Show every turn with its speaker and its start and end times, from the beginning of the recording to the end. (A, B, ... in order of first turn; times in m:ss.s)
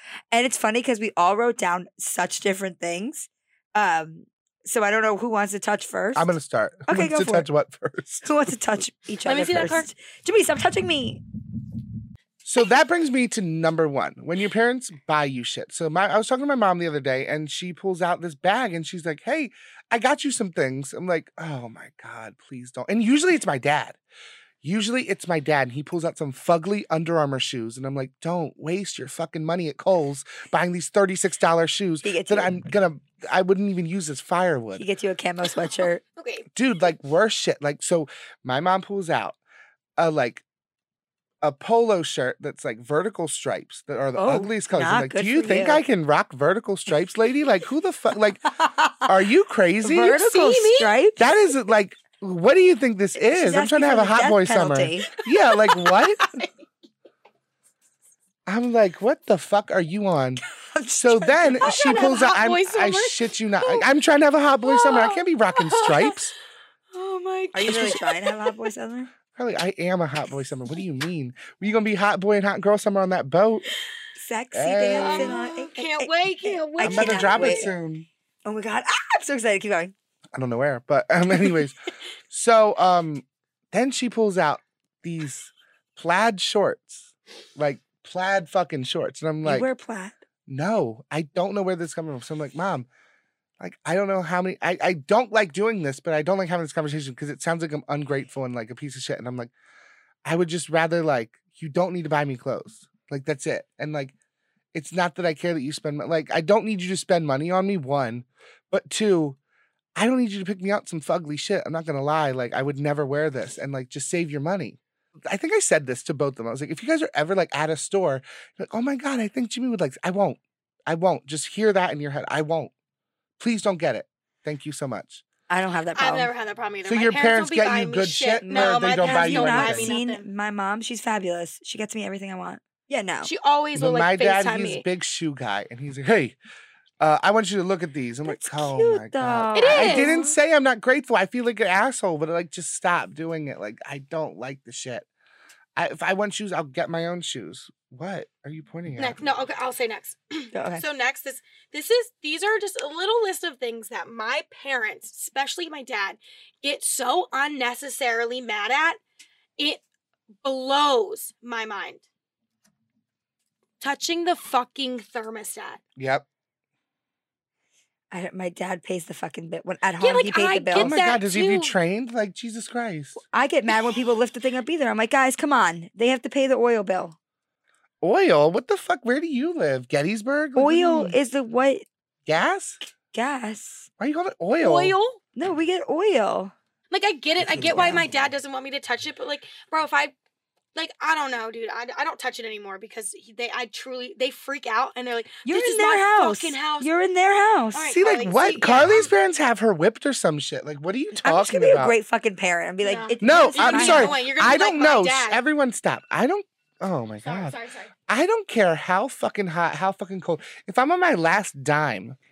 0:00.3-0:06.4 A
0:06.2-0:08.3 B
0:06.9-0:07.5 A
0:08.2-0:11.2 A
0:09.3-0:09.9 C
0:12.4-0:24.0 B
0:24.6-0:34.8 B
0:32.0-0:32.5 A
0:34.8-0:36.0 A
0:36.2-0:36.5 C
0:36.6-0:39.4 B
0:40.0-0:40.4 B
0:41.4-0:48.5 B
0:44.2-0:45.8 A
0:48.6-0:49.1 A
0:49.1-0:50.2 B
0:49.8-0:51.2 A
0:50.1-0:51.0 C
0:51.2-0:56.3 B
0:53.2-0:55.1 A
0:55.2-0:56.5 C
0:58.5-1:00.4 B
1:00.7-1:02.2 A
1:01.0-1:06.3 B
1:01.6-1:03.8 C
1:04.6-1:06.2 C
1:06.9-1:08.7 C
1:07.5-1:09.1 A
1:09.4-1:13.6 B
1:14.2-1:17.7 A
1:14.5-1:15.4 B
1:15.0-1:17.7 C
1:16.8-1:18.1 B
1:18.4-1:19.9 A
1:20.4-1:21.8 B
1:22.3-1:29.7 B
1:29.4-1:30.2 A
1:30.5-1:32.9 B
1:33.6-1:39.5 B
1:40.2-1:44.1 B
1:44.7-1:49.4 B
1:50.0-2:02.7 B
2:03.4-2:05.2 B
2:05.5-2:06.3 A
2:06.0-2:10.3 C
2:06.9-2:09.9 B
2:08.4-2:13.3 A
2:13.2-2:14.8 C
2:13.8-2:16.4 B
2:17.0-2:25.1 B
2:18.3-2:20.4 A
2:19.6-2:20.2 C
2:25.8-2:29.2 B
2:29.0-2:39.0 C
2:30.5-2:30.8 A
2:40.4-2:42.0 C
2:43.8-2:45.8 C
2:46.0-2:46.2 B
2:48.1-2:51.0 A
2:50.0-2:51.7 C
2:50.7-2:53.2 B
2:53.2-2:57.2 A
2:58.0-3:01.2 B
3:00.6-3:01.8 A
3:02.3-3:02.8 B
3:03.1-3:03.9 A
3:04.0-3:05.0 B
3:04.6-3:05.2 C
3:05.4-3:06.5 A
3:06.9-3:10.1 C
3:07.4-3:08.1 B
3:10.8-3:16.9 C
3:15.4-3:17.9 A
3:17.7-3:19.1 C
3:17.9-3:22.0 B
3:21.2-3:24.2 A
3:22.8-3:25.4 C
3:23.2-3:27.6 B
3:27.2-3:27.9 C
3:28.1-3:32.2 B